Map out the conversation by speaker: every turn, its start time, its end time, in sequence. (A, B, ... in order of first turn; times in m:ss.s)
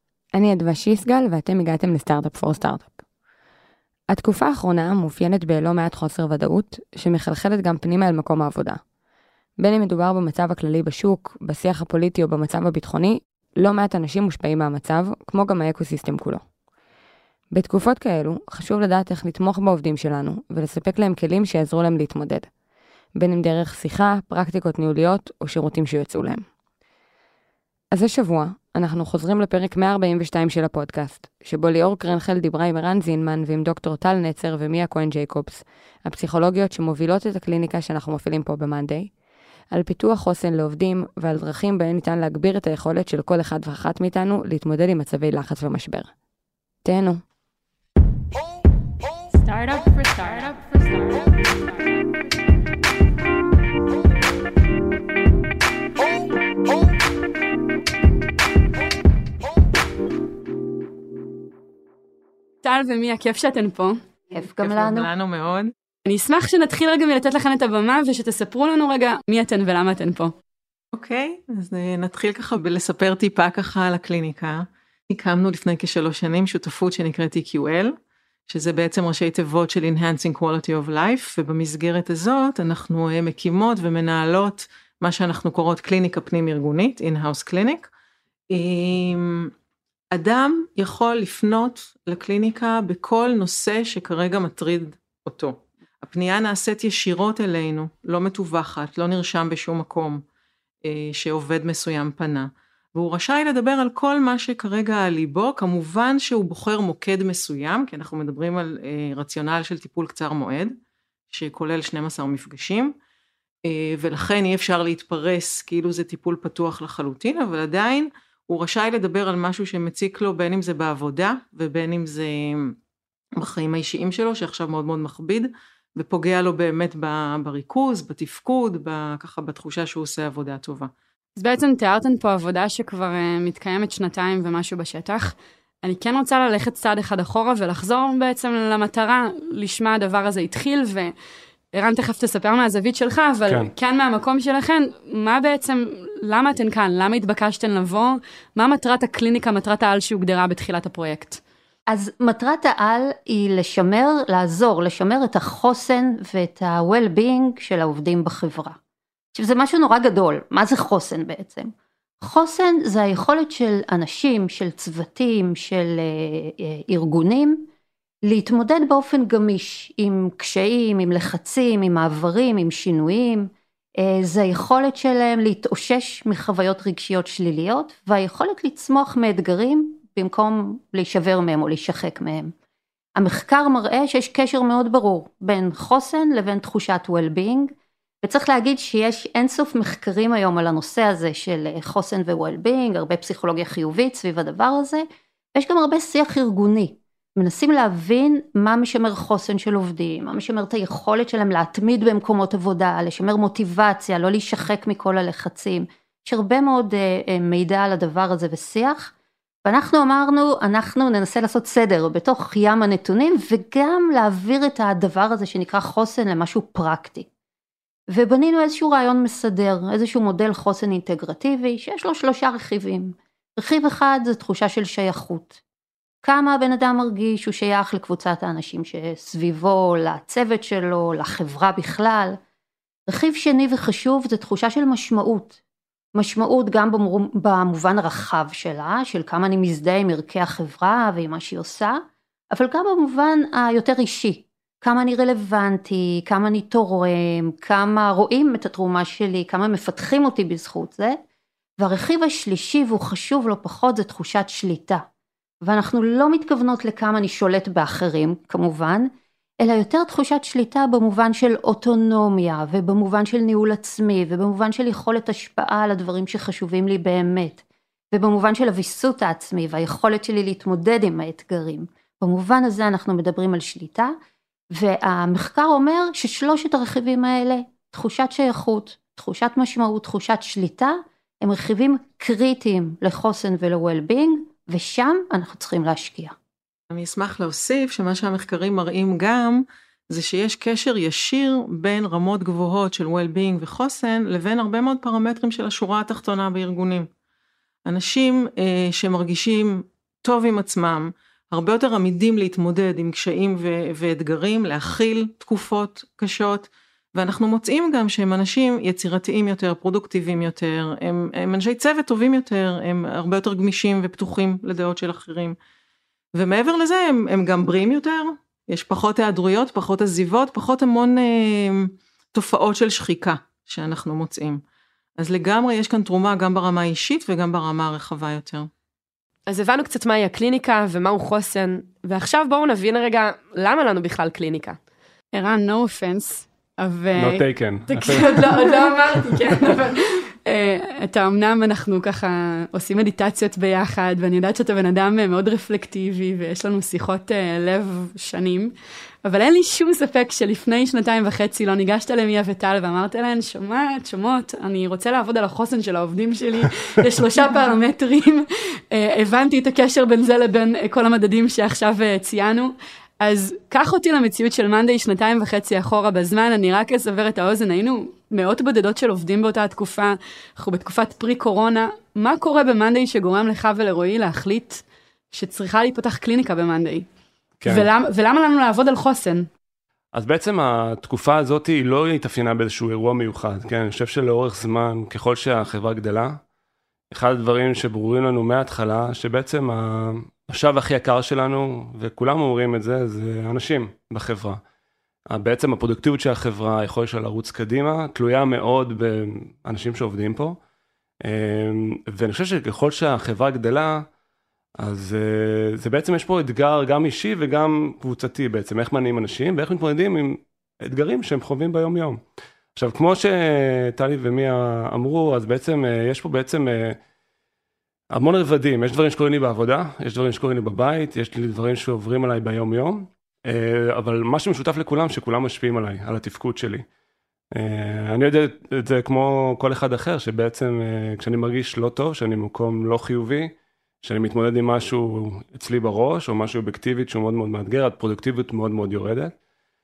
0:00.3-0:03.0 A
0:04.1-0:08.8 A
0:09.6-0:16.4 A
0:17.5-0:22.5 A
0:23.2-0:26.4 A
0:27.9-0:39.1 A
0:39.7-0:46.1 A
0:46.8-0:47.2 A
0:49.4-0:50.9 B
1:02.6-1:04.0 B
1:04.3-1:05.1 C
1:04.3-1:05.7 D
1:06.0-1:10.3 B
1:10.9-1:17.9 D
1:18.5-1:27.9 D
1:28.5-1:29.5 D
1:30.1-1:40.2 D
1:40.8-1:50.7 D
1:51.3-1:52.9 D
1:53.6-2:02.7 D
2:03.4-2:10.9 D
2:11.4-2:21.1 B
2:21.7-2:31.4 B
2:31.9-2:38.8 C
2:39.3-2:47.7 C
2:48.2-3:02.5 C
3:03.2-3:29.1 C
3:29.6-3:37.3 C
3:38.1-3:45.6 C
3:46.2-3:52.4 C
3:53.1-3:55.6 C
3:56.1-4:11.2 C
4:11.8-4:15.0 C
4:15.6-4:34.1 C
4:34.7-4:46.3 C
4:46.9-4:57.1 D
4:57.8-5:15.6 D
5:16.3-5:24.6 D
5:25.2-5:28.7 D
5:29.5-5:34.8 E
5:35.3-5:48.7 B
5:37.2-5:38.8 F
5:49.2-6:17.1 B
6:17.6-6:17.9 F
6:17.7-6:19.5 B
6:20.1-6:26.4 F
6:27.1-6:34.6 F
6:35.3-6:40.6 F
6:41.2-6:44.0 F
6:44.8-6:52.2 F
6:52.8-6:57.0 F
6:58.1-7:06.8 F
7:07.5-7:19.3 F